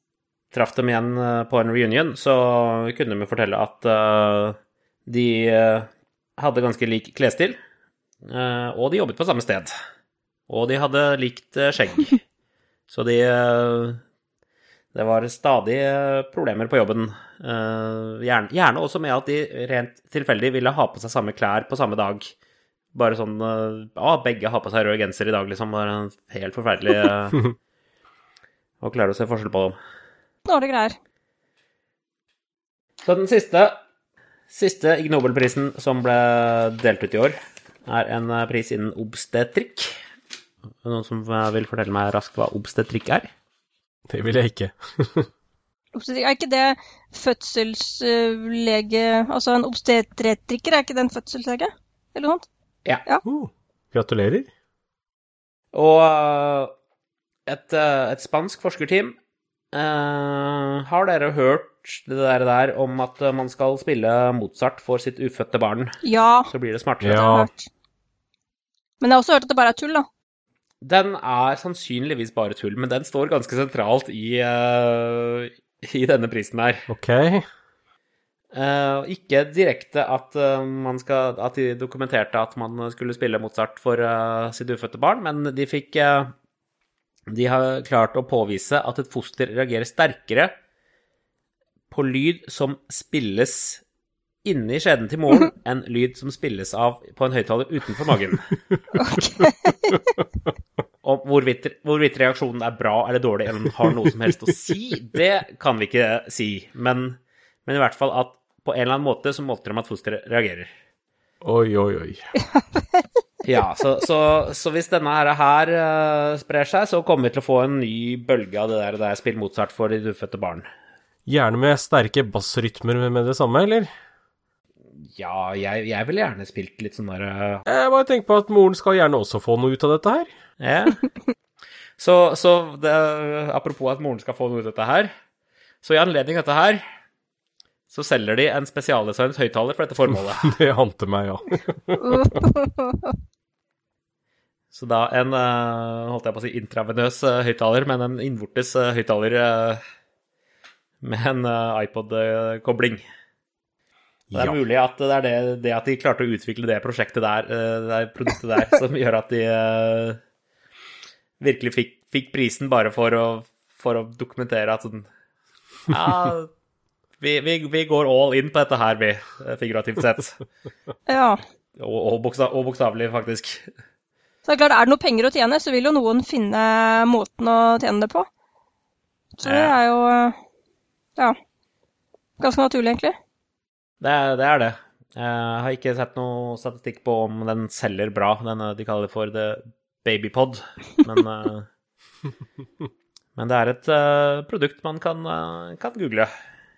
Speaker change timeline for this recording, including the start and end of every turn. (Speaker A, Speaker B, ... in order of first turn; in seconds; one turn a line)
Speaker A: 0.5-7.6
Speaker A: 8.3-9.7
Speaker A: 10.5-12.2
Speaker A: 12.9-14.0
Speaker A: 14.9-22.3
Speaker A: 22.9-27.4
Speaker A: 28.8-29.8
Speaker B: 30.5-31.0
Speaker A: 33.0-33.8
Speaker A: 34.5-39.9
Speaker A: 40.8-43.3
Speaker C: 44.1-45.3
Speaker B: 45.9-52.5
Speaker C: 53.2-54.5
Speaker A: 55.7-56.7
Speaker A: 57.5-59.2
Speaker A: 59.7-66.0
Speaker B: 66.0-66.5
Speaker A: 66.5-67.4
Speaker C: 67.0-67.5
Speaker B: 67.1-67.7
Speaker B: 69.0-70.1
Speaker A: 70.8-76.9
Speaker C: 76.9-77.5
Speaker A: 78.5-86.3
Speaker A: 87.3-90.5
Speaker A: 91.9-93.8
Speaker A: 94.4-98.5
Speaker B: 99.0-100.0
Speaker A: 101.0-110.7
Speaker C: 111.4-112.3
Speaker B: 112.6-113.0
Speaker A: 113.4-120.7
Speaker C: 121.3-123.9
Speaker A: 125.2-127.6
Speaker C: 127.7-130.3
Speaker A: 130.6-131.1
Speaker A: 132.0-135.1
Speaker A: 135.8-136.8
Speaker A: 137.9-140.5
Speaker C: 140.1-142.4
Speaker B: 142.0-143.2
Speaker A: 144.7-149.8
Speaker A: 151.0-153.0
Speaker C: 154.3-154.6
Speaker A: 154.3-160.2
Speaker A: 161.4-165.1
Speaker A: 165.9-166.5
Speaker A: 167.2-170.4
Speaker B: 171.1-171.4
Speaker A: 171.8-173.7
Speaker B: 174.5-178.3
Speaker B: 179.4-180.4
Speaker A: 179.4-179.8
Speaker B: 182.4-183.2
Speaker A: 184.0-191.7
Speaker A: 193.4-196.3